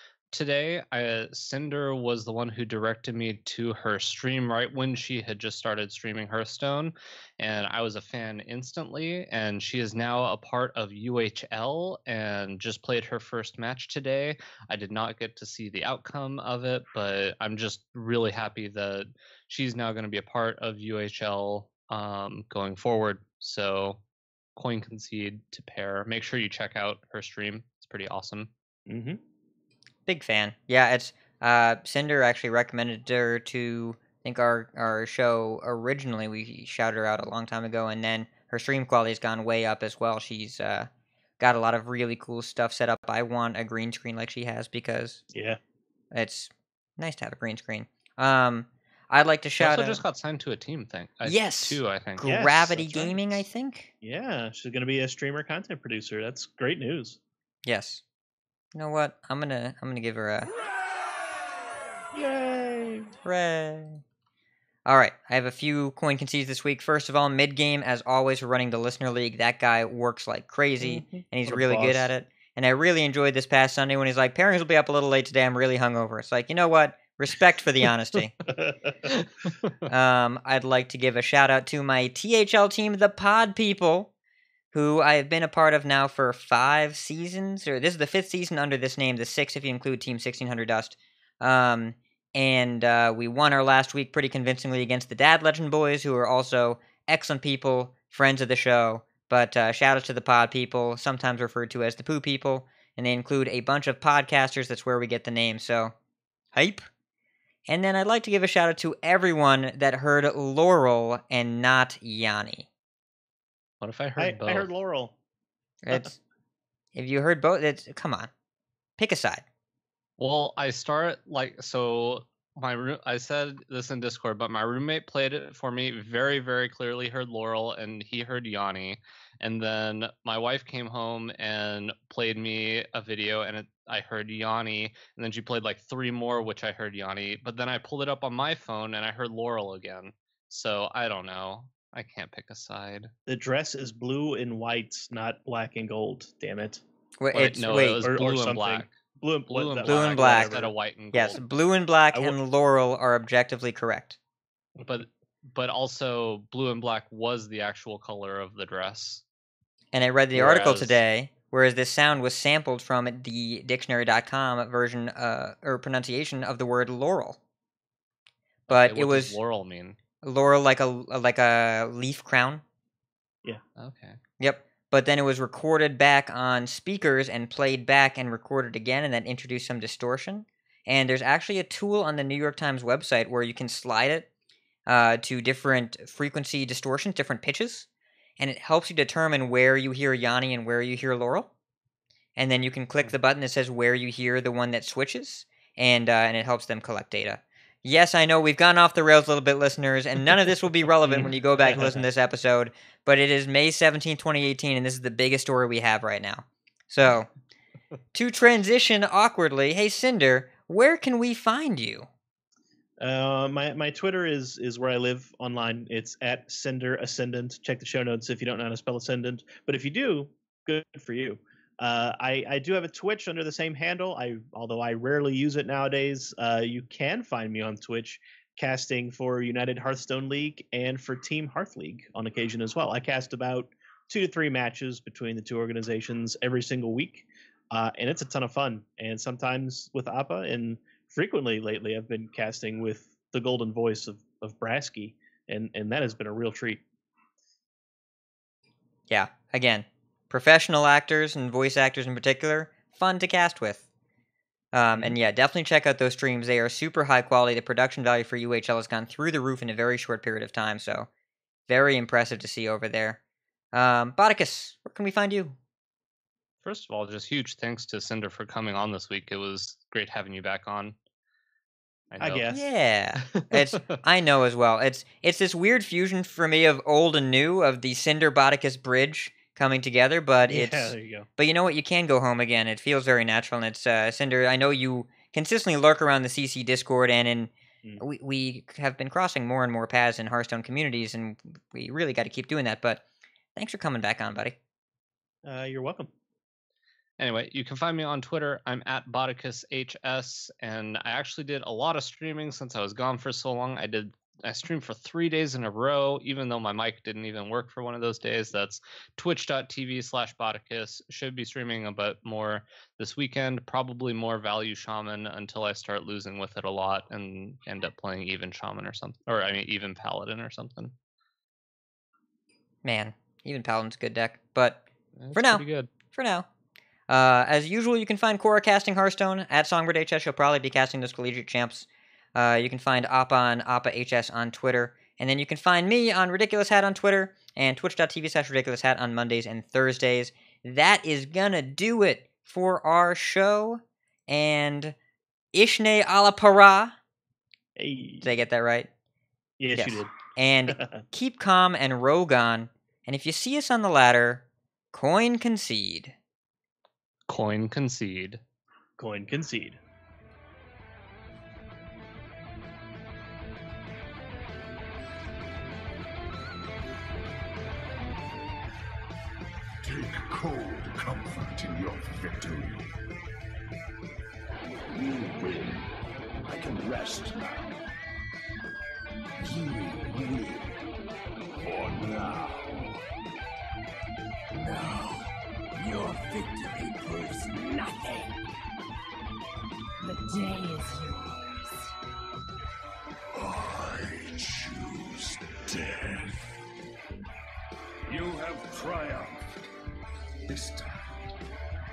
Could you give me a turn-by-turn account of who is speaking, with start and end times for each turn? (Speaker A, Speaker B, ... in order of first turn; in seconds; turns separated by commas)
Speaker A: 0.3-24.0, Speaker A: 24.6-28.5, Speaker B: 28.9-29.2, Speaker C: 30.1-40.9, Speaker C: 41.4-45.2, Speaker B: 45.3-45.6, Speaker C: 46.1-50.0, Speaker A: 49.6-52.2, Speaker C: 51.2-53.9, Speaker B: 52.2-53.4, Speaker B: 54.0-57.2, Speaker C: 57.7-58.0, Speaker C: 58.7-60.5, Speaker B: 62.1-63.1, Speaker C: 63.2-64.0, Speaker C: 64.8-78.4, Speaker B: 70.8-72.1, Speaker B: 78.6-78.9, Speaker C: 79.9-84.1, Speaker C: 84.7-105.9, Speaker C: 106.5-106.9, Speaker C: 107.7-112.7, Speaker A: 113.8-114.7, Speaker B: 114.2-115.2, Speaker C: 115.8-116.2, Speaker C: 116.9-118.3, Speaker C: 119.0-119.4, Speaker A: 120.2-143.1, Speaker B: 143.3-146.8, Speaker C: 147.2-148.1, Speaker A: 147.3-148.9, Speaker B: 148.0-150.7, Speaker A: 149.5-151.4, Speaker C: 149.8-150.6, Speaker C: 151.1-154.2, Speaker B: 152.1-152.4, Speaker A: 154.8-159.2, Speaker C: 159.9-167.4, Speaker A: 160.3-161.0, Speaker A: 168.7-170.0, Speaker C: 168.7-169.4, Speaker C: 170.2-172.6, Speaker A: 173.8-174.2, Speaker C: 174.4-184.3, Speaker C: 184.9-187.9, Speaker C: 188.4-191.5, Speaker C: 192.4-207.3, Speaker B: 201.1-202.0, Speaker C: 208.1-212.1, Speaker B: 213.0-246.8, Speaker C: 249.1-253.8, Speaker C: 254.7-261.1, Speaker C: 261.7-263.2, Speaker C: 263.7-265.6, Speaker A: 266.6-270.9, Speaker A: 272.1-272.5, Speaker B: 272.2-272.6, Speaker C: 272.5-293.0, Speaker A: 273.2-273.8, Speaker B: 280.5-281.3, Speaker C: 293.6-294.6, Speaker B: 295.4-296.1, Speaker A: 297.2-320.9, Speaker C: 322.9-324.8, Speaker A: 325.2-325.9, Speaker C: 325.3-326.5, Speaker C: 327.1-344.9, Speaker C: 345.5-347.0, Speaker B: 347.8-348.3, Speaker C: 348.2-348.9, Speaker B: 349.6-350.1, Speaker C: 349.8-356.1, Speaker B: 350.7-351.0, Speaker A: 357.3-358.4, Speaker B: 359.0-359.8, Speaker D: 369.8-372.9, Speaker D: 374.9-375.9, Speaker D: 376.4-377.8, Speaker D: 379.4-380.8, Speaker D: 381.6-382.9, Speaker D: 384.5-388.4, Speaker D: 390.0-391.9, Speaker D: 393.4-396.5, Speaker D: 398.1-399.4, Speaker D: 400.5-401.2